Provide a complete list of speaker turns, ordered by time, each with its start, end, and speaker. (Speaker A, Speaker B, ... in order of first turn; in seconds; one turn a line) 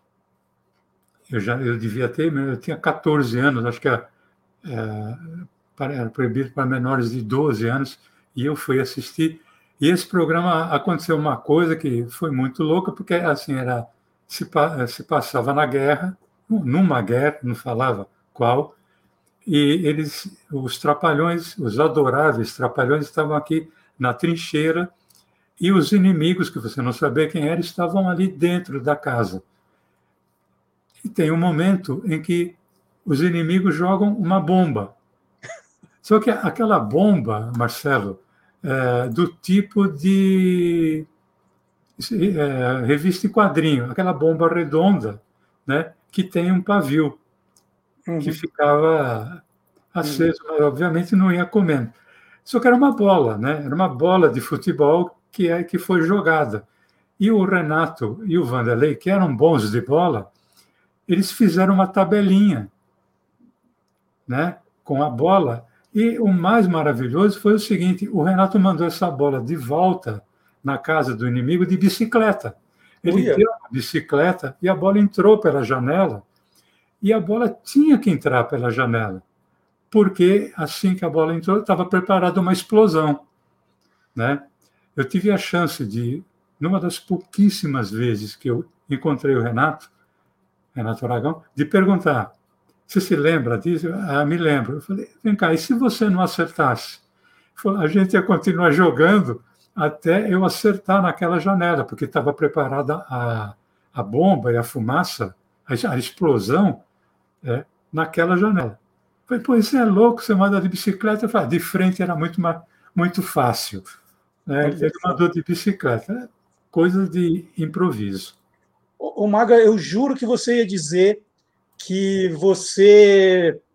Speaker A: 1.3-4.1
Speaker A: 4.6-18.8
Speaker A: 19.4-24.9
Speaker A: 25.6-29.4
Speaker A: 31.0-35.0
Speaker A: 36.0-41.1
Speaker A: 42.0-47.2
Speaker B: 48.1-48.4
Speaker A: 48.2-56.7
Speaker B: 50.0-50.3
Speaker A: 57.2-60.3
Speaker A: 61.1-62.7
Speaker A: 64.3-76.2
Speaker B: 73.0-73.4
Speaker A: 77.0-79.2
Speaker A: 79.9-83.2
Speaker A: 84.2-89.9
Speaker A: 90.7-92.3
Speaker A: 92.9-97.0
Speaker A: 97.6-106.8
Speaker A: 107.4-113.9
Speaker A: 114.5-118.4
Speaker B: 114.6-115.2
Speaker B: 119.0-121.2
Speaker B: 121.8-123.6